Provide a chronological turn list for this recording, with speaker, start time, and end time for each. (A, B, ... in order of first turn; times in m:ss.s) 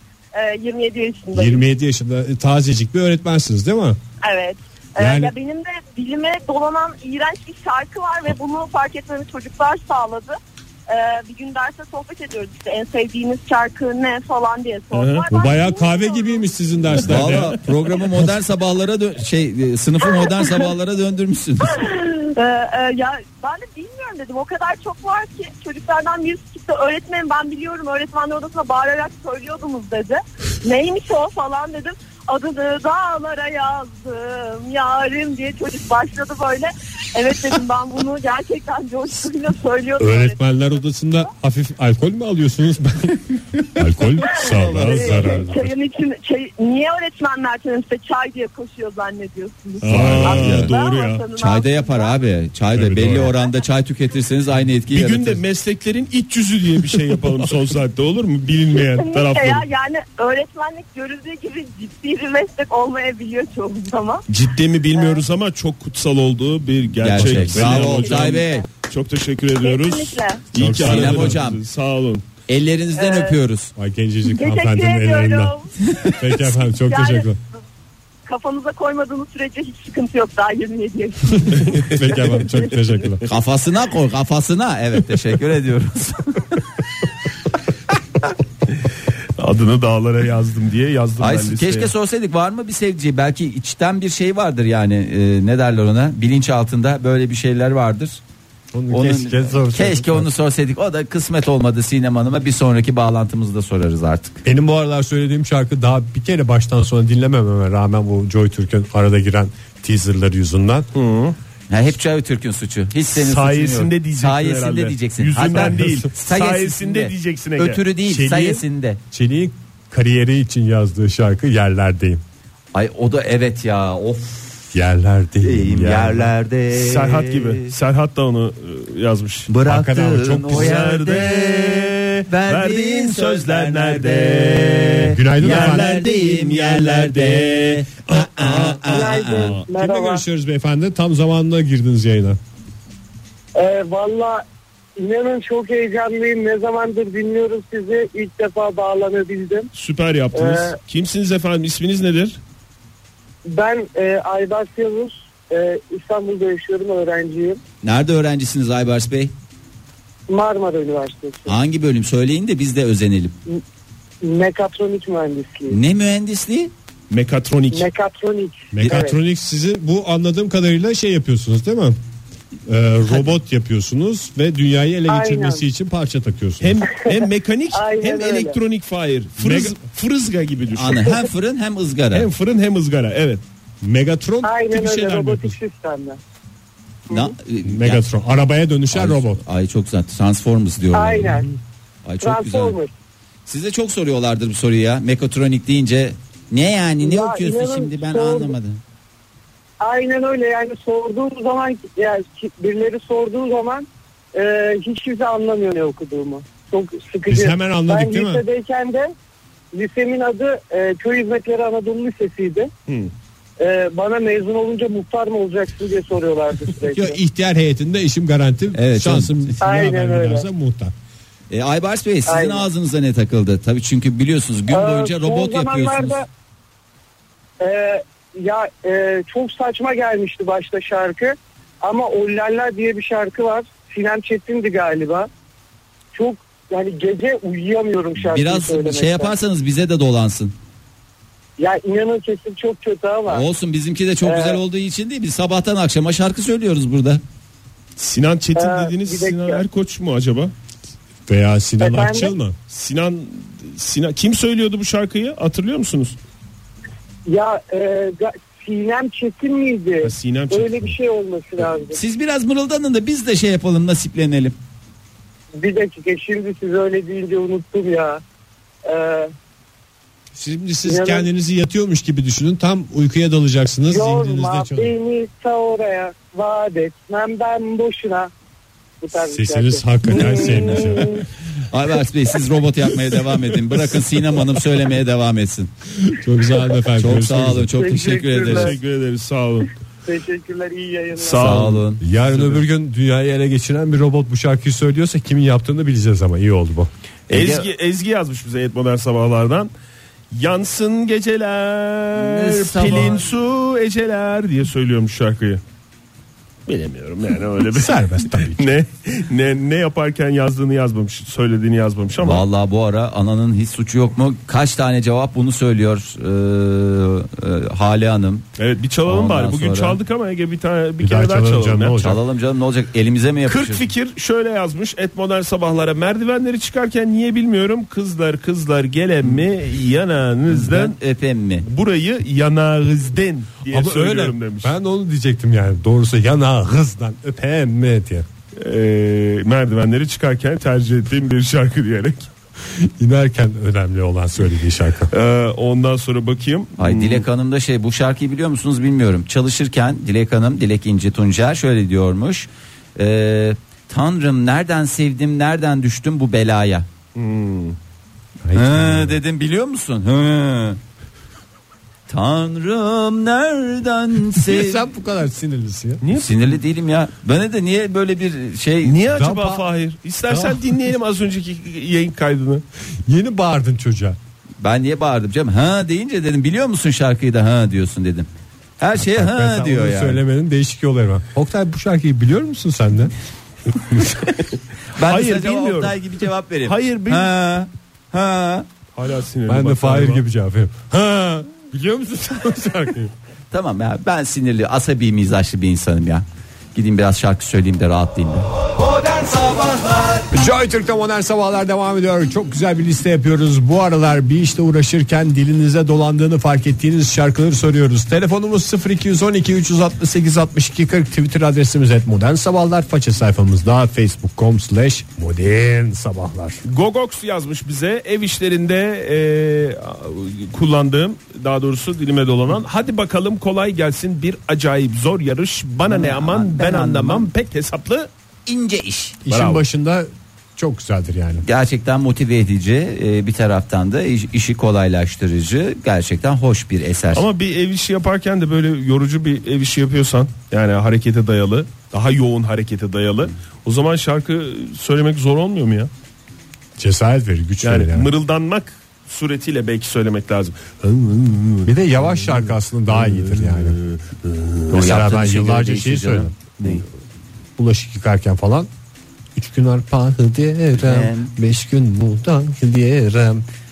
0:00.3-0:01.6 A
0:01.3-0:04.0 B
0:04.2-0:10.4 A
0:05.0-0:05.3 B
0:10.9-0:16.5 A
0:14.9-0:15.3 C
0:15.3-0:17.6 B
0:17.0-0:21.8 D
0:21.8-0:40.4 A
0:40.0-0:45.7 B
0:44.3-0:45.4 D
0:44.4-0:52.2 A
0:49.8-0:51.2 C
0:49.8-0:50.5 B
0:49.8-0:50.7 D
0:51.4-0:55.4 D
0:52.7-0:53.3 B
0:54.9-0:59.6 C
0:58.7-1:04.2 A
1:04.3-1:12.2 C
1:04.9-1:05.2 A
1:07.0-1:08.6 D
1:07.1-1:08.1 B
1:07.8-1:08.6 A
1:09.6-1:10.4 A
1:10.5-1:11.4 B
1:10.7-1:11.6 D
1:12.5-1:13.7 D
1:12.9-1:13.4 A
1:13.8-1:15.5 B
1:14.3-1:17.4 A
1:16.2-1:17.4 B
1:18.2-1:22.8 A
1:21.4-1:23.2 B
1:21.6-1:22.3 C
1:23.2-1:26.6 D
1:29.4-1:31.9 C
1:31.2-1:38.2 D
1:38.7-1:40.3 B
1:38.9-1:44.4 D
1:44.4-1:50.9 B
1:50.9-1:51.4 C
1:51.7-1:59.0 D
1:53.1-1:57.8 C
1:55.5-1:56.1 B
1:58.0-2:02.2 B
2:02.7-2:04.7 D
2:04.7-2:06.3 B
2:05.4-2:07.7 D
2:06.7-2:09.5 C
2:09.5-2:19.6 D
2:09.6-2:10.8 B
2:10.5-2:19.6 C
2:15.1-2:16.0 B
2:18.8-2:20.2 E
2:19.7-2:22.4 B
2:23.5-2:24.4 E
2:25.0-2:29.7 E
2:29.7-2:32.4 C
2:30.3-2:30.8 E
2:33.5-2:37.6 E
2:37.8-2:39.3 D
2:40.3-2:41.6 E
2:41.4-2:43.3 D
2:44.2-2:45.8 E
2:45.7-2:46.7 D
2:47.1-2:47.9 C
2:47.7-2:49.2 E
2:48.7-2:52.0 B
2:48.8-2:49.0 D
2:52.7-2:56.8 B
2:55.1-2:55.6 E
2:56.6-3:01.2 C
2:57.7-2:58.6 E
2:59.4-2:59.8 B
3:00.7-3:02.3 D
3:02.1-3:03.4 C
3:03.8-3:05.6 B
3:04.4-3:06.2 E
3:07.1-3:08.0 D
3:07.6-3:09.4 B
3:08.9-3:11.3 D
3:10.9-3:11.5 E
3:12.0-3:12.8 D
3:12.2-3:12.9 E
3:13.5-3:18.8 D
3:17.0-3:18.5 E
3:19.8-3:29.1 E
3:27.3-3:28.4 B
3:29.7-3:32.7 E
3:33.6-3:37.2 E
3:36.9-3:40.9 B
3:38.7-3:39.5 D
3:39.6-3:40.5 E
3:41.5-3:46.2 D
3:42.2-3:42.7 E
3:44.7-3:46.3 E
3:47.6-3:55.3 E
3:56.1-3:59.3 E
3:58.2-4:00.5 D
4:01.6-4:03.4 E
4:03.3-4:07.2 D
4:04.2-4:04.6 E
4:08.0-4:10.5 C
4:08.6-4:09.6 E
4:11.3-4:12.5 B
4:11.8-4:12.3 E
4:12.7-4:16.2 C
4:17.3-4:22.0 E
4:20.0-4:21.0 C
4:21.9-4:24.6 D
4:25.6-4:28.2 E
4:28.8-4:29.3 E
4:30.3-4:34.9 B
4:30.8-4:31.3 E
4:33.9-4:38.3 E
4:39.0-4:41.2 E
4:39.2-4:41.2 B
4:41.7-4:45.7 D
4:46.0-4:47.7 B
4:47.0-4:48.7 D
4:47.7-4:48.8 E
4:48.4-4:49.7 C
4:50.0-4:51.6 E
4:51.2-4:52.6 C
4:51.4-4:52.0 D
4:52.0-4:56.9 B
4:57.3-4:57.7 D
4:57.3-4:59.7 C
5:00.3-5:05.6 C
5:02.1-5:03.2 D
5:06.7-5:12.4 C
5:07.7-5:08.7 B
5:12.2-5:18.4 D
5:18.6-5:22.0 C
5:19.0-5:20.0 D
5:21.0-5:22.2 B
5:22.0-5:23.8 D
5:23.4-5:31.0 C
5:29.2-5:29.5 D
5:30.5-5:31.6 D
5:31.6-5:34.7 C
5:33.7-5:38.2 B
5:38.6-5:42.3 C
5:42.7-5:45.1 B
5:45.1-5:47.2 C
5:46.8-5:56.9 D
5:57.1-5:57.8 C
5:58.4-5:59.2 B
5:58.5-6:00.8 D
6:02.1-6:04.8 D
6:04.4-6:06.0 B
6:06.0-6:06.6 C
6:06.1-6:09.0 D
6:08.8-6:12.6 C
6:09.1-6:09.6 B
6:10.3-6:10.7 B
6:13.0-6:14.2 B
6:14.6-6:18.3 D
6:18.8-6:20.2 D
6:18.9-6:23.1 B
6:23.8-6:24.1 B
6:24.9-6:28.7 D
6:25.0-6:26.0 C
6:26.6-6:27.3 C
6:28.9-6:30.2 C
6:29.5-6:33.1 B
6:33.5-6:38.5 D
6:40.3-6:56.6 B
6:56.6-7:08.1 C
7:05.8-7:07.3 D
7:08.4-7:09.2 D
7:09.2-7:11.4 B
7:09.3-7:09.6 C
7:11.4-7:17.2 D
7:17.1-7:25.9 C
7:26.8-7:28.1 B
7:27.6-7:34.7 C
7:31.6-7:33.8 B
7:34.7-7:36.8 B
7:34.7-7:36.8 D
7:37.6-7:38.7 B
7:39.4-7:43.4 B
7:40.8-7:41.3 D